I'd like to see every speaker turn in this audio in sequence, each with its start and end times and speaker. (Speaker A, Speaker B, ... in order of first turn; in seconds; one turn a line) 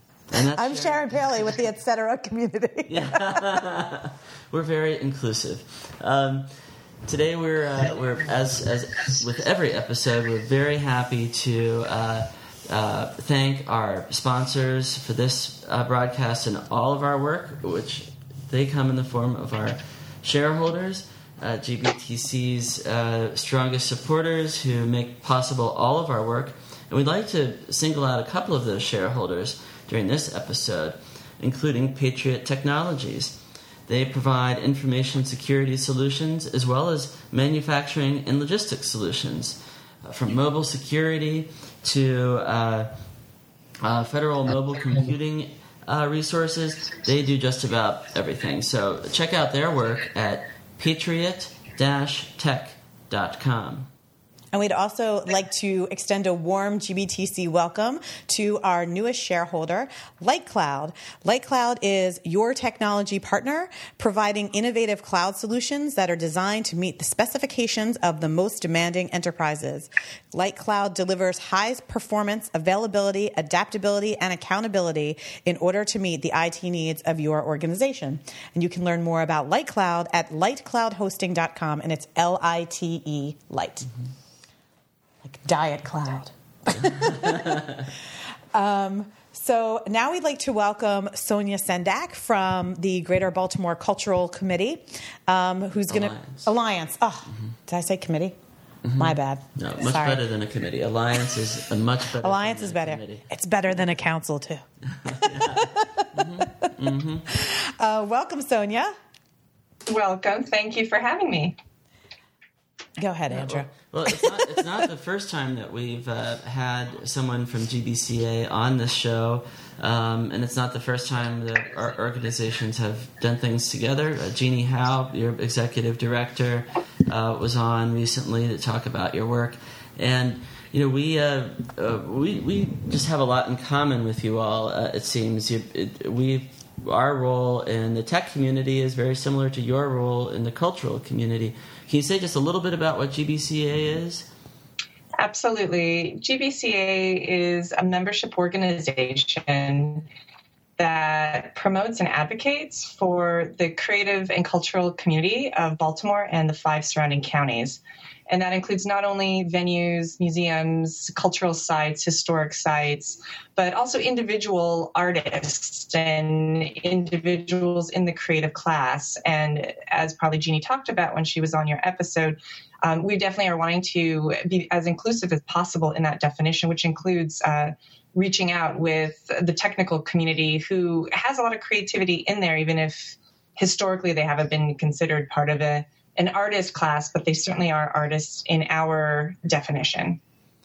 Speaker A: 0.3-1.6
Speaker B: 0.5-3.4
Speaker A: 2.9-6.5
Speaker A: 7.0-42.9
Speaker A: 43.8-53.9
Speaker B: 54.5-83.9
Speaker B: 85.2-87.7
Speaker B: 88.5-98.3
Speaker A: 95.9-96.5
Speaker A: 98.8-103.2
Speaker B: 98.9-100.2
Speaker B: 102.2-104.6
Speaker A: 104.9-107.3
Speaker B: 105.6-106.4
Speaker B: 107.3-108.9
Speaker C: 109.9-111.5
Speaker B: 113.0-114.3
Speaker A: 113.3-144.3
Speaker C: 145.2-150.1
Speaker C: 150.8-190.2